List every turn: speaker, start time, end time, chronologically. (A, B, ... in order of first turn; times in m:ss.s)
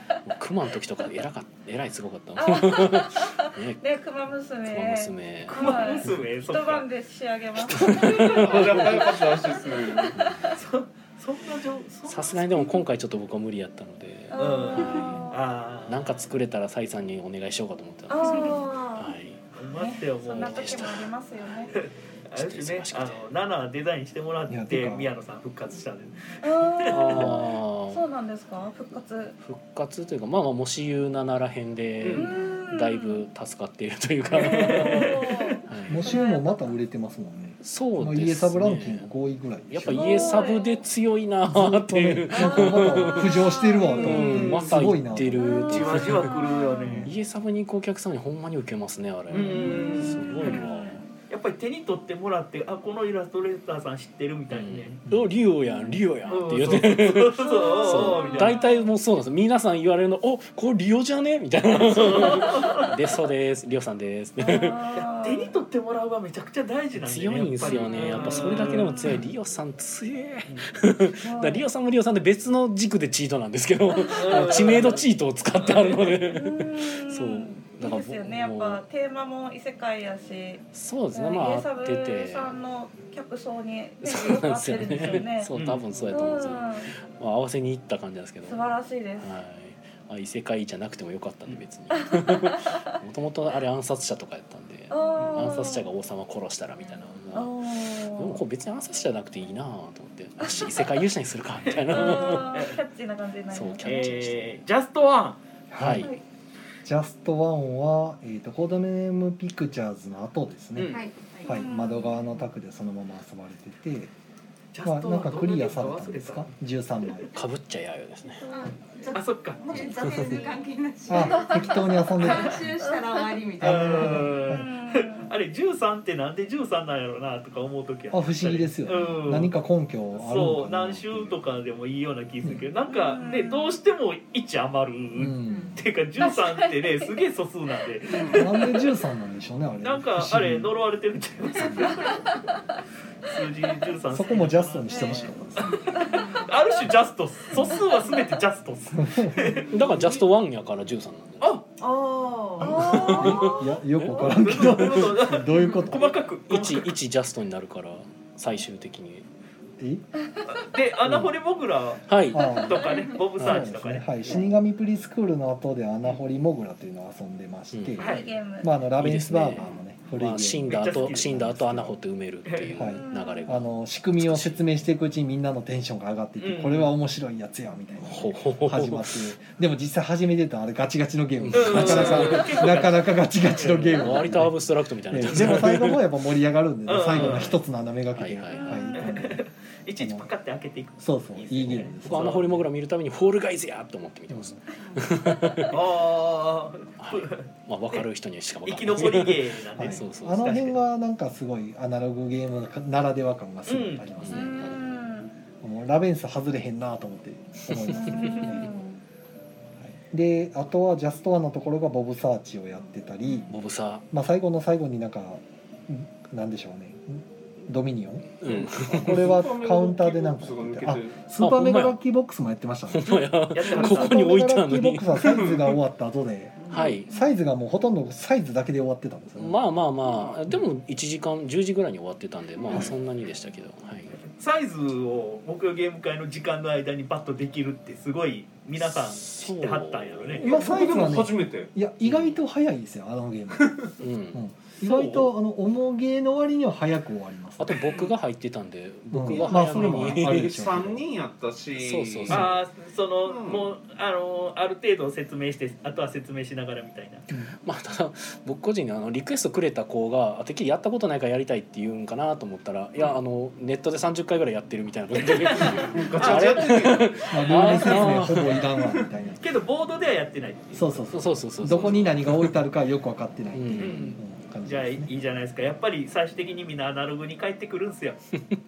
0:00.2-0:03.8 A
0:02.4-0:10.3 B
0:04.6-0:06.3 A
0:05.5-0:06.9 C
0:07.6-0:09.0 A
0:08.1-0:10.2 D
0:10.1-0:10.6 A
0:10.5-0:12.8 C
0:12.0-0:19.4 A
0:14.3-0:15.4 B
0:14.4-0:16.2 C
0:18.1-0:19.2 B
0:19.5-0:21.0 C
0:19.7-0:21.8 B
0:20.4-0:21.5 A
0:21.7-0:27.4 C
0:22.3-0:23.2 A
0:24.5-0:25.1 E
0:26.4-0:29.4 B
0:26.9-0:28.0 A
0:29.4-0:35.0 A
0:32.0-0:32.3 C
0:32.1-0:33.2 B
0:34.3-0:36.8 B
0:34.4-0:35.6 C
0:35.7-0:36.1 A
0:35.9-0:40.4 E
0:37.6-0:39.1 A
0:39.7-0:46.3 A
0:39.8-0:40.8 B
0:41.5-0:46.0 E
0:42.3-0:44.5 B
0:44.0-0:44.8 C
0:45.4-0:47.1 B
0:45.5-0:47.1 C
0:46.8-0:47.1 E
0:47.0-0:51.0 A
0:49.3-0:50.6 C
0:49.5-0:51.0 B
0:51.3-0:55.0 C
0:54.5-1:04.8 A
0:55.6-0:56.0 B
0:56.3-0:58.6 C
0:57.3-0:58.9 B
1:01.8-1:02.9 C
1:04.4-1:05.6 B
1:05.0-1:09.2 C
1:07.0-1:18.8 A
1:07.6-1:09.2 B
1:11.2-1:11.7 B
1:14.0-1:14.7 B
1:14.1-1:16.2 C
1:16.3-1:25.5 B
1:20.7-1:22.5 A
1:24.0-1:28.6 A
1:25.5-1:25.9 C
1:26.1-1:27.0 B
1:28.4-1:29.3 B
1:29.2-1:42.6 A
1:31.9-1:32.9 B
1:34.9-1:35.9 B
1:35.2-1:35.5 C
1:37.3-1:38.4 B
1:40.4-1:40.8 B
1:41.7-1:42.8 C
1:41.9-1:44.3 B
1:43.5-1:44.6 A
1:43.8-1:45.4 C
1:45.7-1:46.1 E
1:45.8-1:46.1 A
1:45.9-1:46.2 B
1:46.8-1:54.1 E
1:50.8-1:51.0 C
1:50.9-1:51.6 F
1:51.5-1:52.2 B
1:54.7-1:56.5 C
1:54.8-1:57.3 E
1:57.3-1:58.4 A
1:58.4-1:58.7 B
1:58.5-2:04.3 F
1:59.1-2:00.0 C
2:00.0-2:00.3 A
2:01.1-2:02.6 E
2:02.8-2:03.2 B
2:03.6-2:04.7 E
2:03.6-2:09.5 C
2:04.5-2:05.3 B
2:08.1-2:11.4 E
2:10.1-2:18.5 C
2:12.9-2:13.8 B
2:15.1-2:15.8 E
2:16.2-2:17.2 B
2:18.1-2:18.4 D
2:18.2-2:18.9 B
2:18.3-2:20.7 E
2:19.8-2:22.3 C
2:21.6-2:22.0 E
2:21.8-2:22.0 B
2:23.2-2:30.2 C
2:24.1-2:25.6 E
2:24.9-2:26.4 B
2:26.2-2:26.4 F
2:27.5-2:27.8 E
2:28.9-2:29.6 E
2:29.7-2:31.5 A
2:31.8-2:32.8 F
2:32.6-2:33.7 B
2:32.6-2:34.8 A
2:33.1-2:36.1 E
2:34.1-2:36.9 C
2:36.5-2:39.2 A
2:39.8-2:40.0 E
2:40.5-2:44.3 C
2:41.0-2:41.3 A
2:42.1-2:42.6 A
2:42.3-2:52.0 E
2:43.4-2:43.6 A
2:47.7-2:48.0 A
2:48.0-2:48.3 C
2:48.0-2:48.7 B
2:49.0-2:54.6 A
2:50.7-2:51.5 C
2:52.7-3:09.4 E
2:52.8-2:53.6 B
2:56.4-2:56.9 C
2:58.0-2:59.3 A
3:01.4-3:02.5 A
3:01.5-3:04.2 C
3:04.0-3:06.0 A
3:06.9-3:07.5 C
3:07.1-3:07.6 A
3:08.1-3:08.8 A
3:08.5-3:09.2 B
3:08.9-3:12.4 C
3:10.0-3:10.3 E
3:11.0-3:12.6 E
3:12.0-3:15.8 A
3:14.3-3:14.6 E
3:15.7-3:18.0 C
3:17.0-3:20.5 A
3:18.6-3:20.8 C
3:19.8-3:25.0 E
3:23.6-3:24.1 C
3:24.2-3:24.8 A
3:24.3-3:25.3 B
3:25.6-3:28.7 E
3:27.9-3:29.0 B
3:29.8-3:33.5 E
3:33.5-3:34.0 A
3:34.1-3:49.7 E
3:38.4-3:39.3 A
3:38.5-3:41.2 D
3:41.4-3:42.0 A
3:42.9-3:45.4 A
3:43.5-3:44.2 C
3:45.3-3:45.8 D
3:46.7-3:47.1 A
3:49.4-3:54.2 A
3:50.1-3:50.4 D
3:54.4-4:00.5 C
3:58.8-4:00.5 A
4:00.4-4:01.7 D
4:00.4-4:03.8 E
4:02.0-4:02.4 A
4:03.6-4:03.9 D
4:04.0-4:04.4 A
4:04.3-4:07.8 E
4:04.8-4:05.3 D
4:07.6-4:10.5 A
4:09.1-4:11.0 E
4:09.3-4:12.6 D
4:11.8-4:12.5 A
4:12.3-4:17.3 C
4:13.2-4:13.7 D
4:17.6-4:28.6 A
4:25.1-4:26.7 C
4:25.6-4:29.1 D
4:27.3-4:29.4 E
4:29.4-4:31.1 C
4:30.7-4:35.1 E
4:31.1-4:32.6 A
4:33.5-4:34.2 A
4:33.8-4:38.2 C